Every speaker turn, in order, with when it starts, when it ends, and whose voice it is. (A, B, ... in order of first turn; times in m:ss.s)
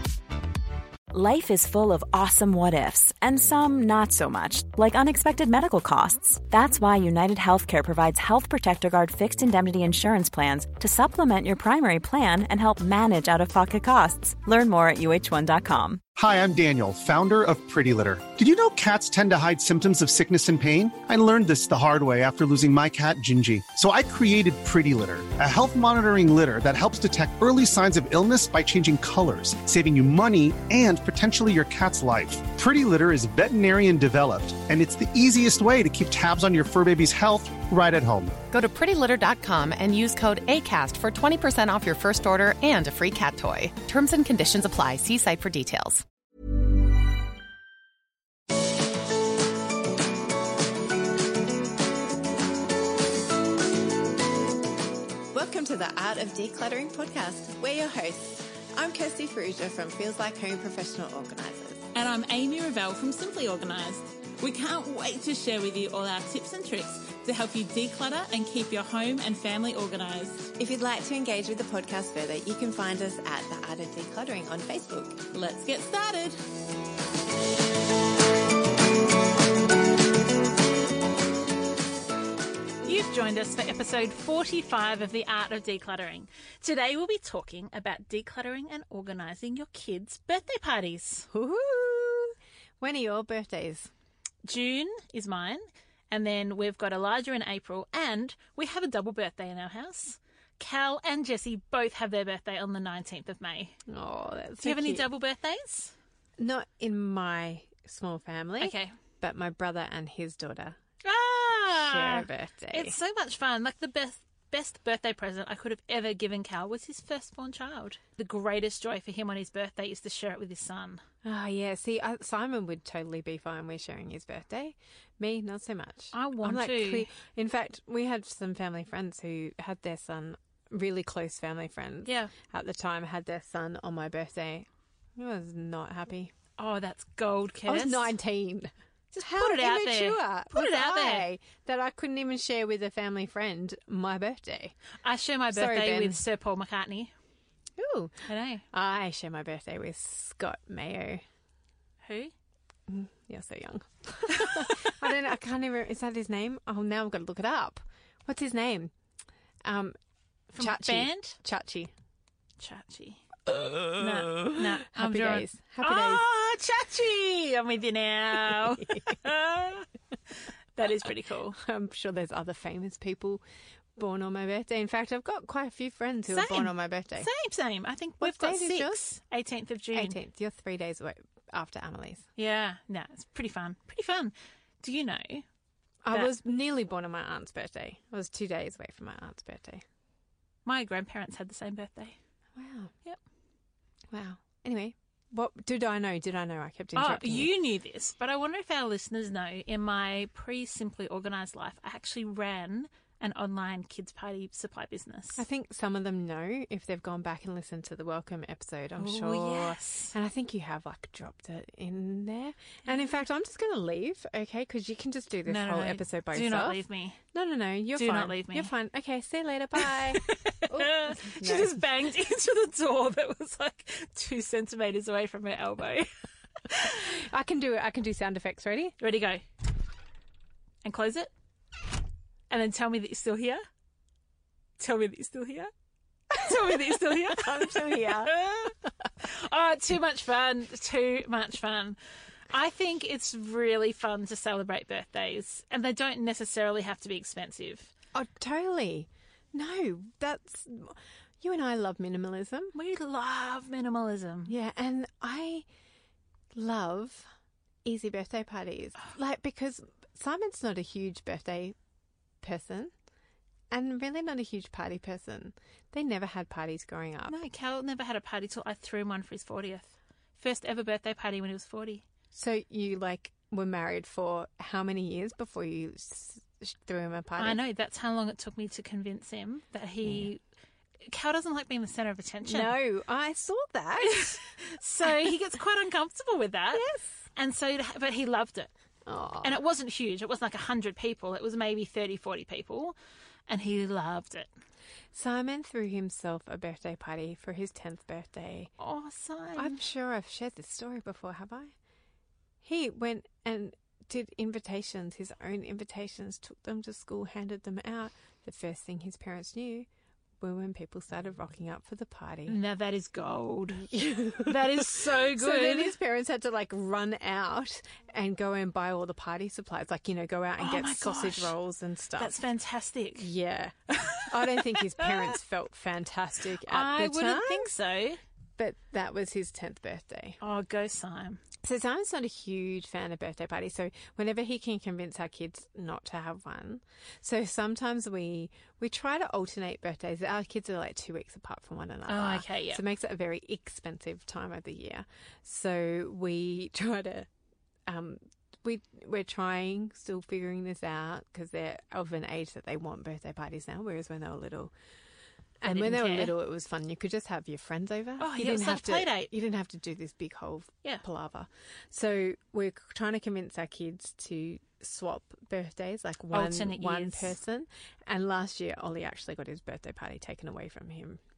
0:01.1-0:16.0 A
0:16.2-0:38.4 B
0:38.5-0:46.0 C
0:55.3-1:01.9 D
1:01.9-1:10.5 E
1:10.6-1:15.2 D
1:15.3-1:16.4 E
1:22.8-1:31.3 E
1:31.3-1:33.9 D
1:34.4-1:43.8 E
1:43.9-1:45.0 D
1:44.6-1:45.9 E
1:46.4-1:50.8 D
1:48.6-1:49.0 E
1:51.0-2:01.0 E
1:51.8-1:53.0 D
2:01.2-2:16.3 D
2:06.1-2:07.1 E
2:12.0-2:12.3 E
2:16.6-2:18.1 E
2:17.7-2:24.8 D
2:19.2-2:21.3 E
2:25.0-2:27.1 E
2:25.5-2:26.2 D
2:27.8-2:31.2 D
2:28.3-2:28.6 E
2:32.0-2:32.3 E
2:32.9-2:38.9 D
2:34.5-2:34.7 E
2:39.6-2:40.0 D
2:40.5-2:41.9 D
2:40.6-2:41.4 E
2:42.6-2:43.2 E
2:43.8-2:49.9 E
2:44.0-2:46.2 D
2:50.8-2:51.6 E
2:51.6-2:53.4 D
2:54.0-2:57.3 D
2:56.3-3:00.2 E
2:58.2-2:59.0 D
2:59.9-3:02.3 D
3:02.4-3:05.4 E
3:06.0-3:09.8 D
3:10.6-3:12.2 E
3:12.6-3:12.9 D
3:14.1-3:17.5 D
3:17.0-3:25.4 E
3:25.4-3:36.8 D
3:29.0-3:30.1 E
3:35.5-3:37.2 E
3:37.3-3:41.8 D
3:38.0-3:38.7 E
3:39.8-3:46.1 E
3:46.7-3:47.1 E
3:47.0-3:49.0 D
3:49.0-3:49.4 E
3:50.8-3:51.3 E
3:52.5-3:53.6 E
3:54.8-3:55.7 E
3:56.3-4:02.0 E
3:56.4-3:58.3 D
4:02.5-4:07.9 E
4:08.1-4:12.8 D
4:12.8-4:14.5 E
4:14.5-4:15.6 D
4:16.5-4:17.3 D
4:17.8-4:21.8 D
4:22.4-4:22.9 D
4:23.7-4:27.4 D
4:27.3-4:32.0 E
4:32.3-4:37.6 D
4:37.4-4:40.4 E
4:41.1-4:42.7 E
4:42.5-4:44.4 D
4:44.0-4:46.8 E
4:46.7-4:47.2 D
4:47.4-4:48.7 E
4:49.1-4:49.5 D
4:49.4-4:53.0 E
4:53.5-4:54.5 E
4:55.1-4:58.7 D
4:58.8-4:59.8 E
4:59.6-5:01.7 D
5:02.6-5:09.9 D
5:10.4-5:12.6 D
5:12.5-5:13.9 E
5:13.8-5:22.3 D
5:14.4-5:15.9 E
5:20.6-5:21.5 E
5:22.2-5:23.3 E
5:23.2-5:27.7 D
5:23.9-5:25.3 E
5:26.6-5:28.2 E
5:28.6-5:30.4 D
5:30.4-5:31.4 E
5:31.6-5:47.3 D
5:42.1-5:42.8 E
5:47.8-5:54.7 D
5:55.6-6:11.2 D
5:55.6-5:56.3 E
5:58.2-5:59.3 E
6:06.3-6:07.4 E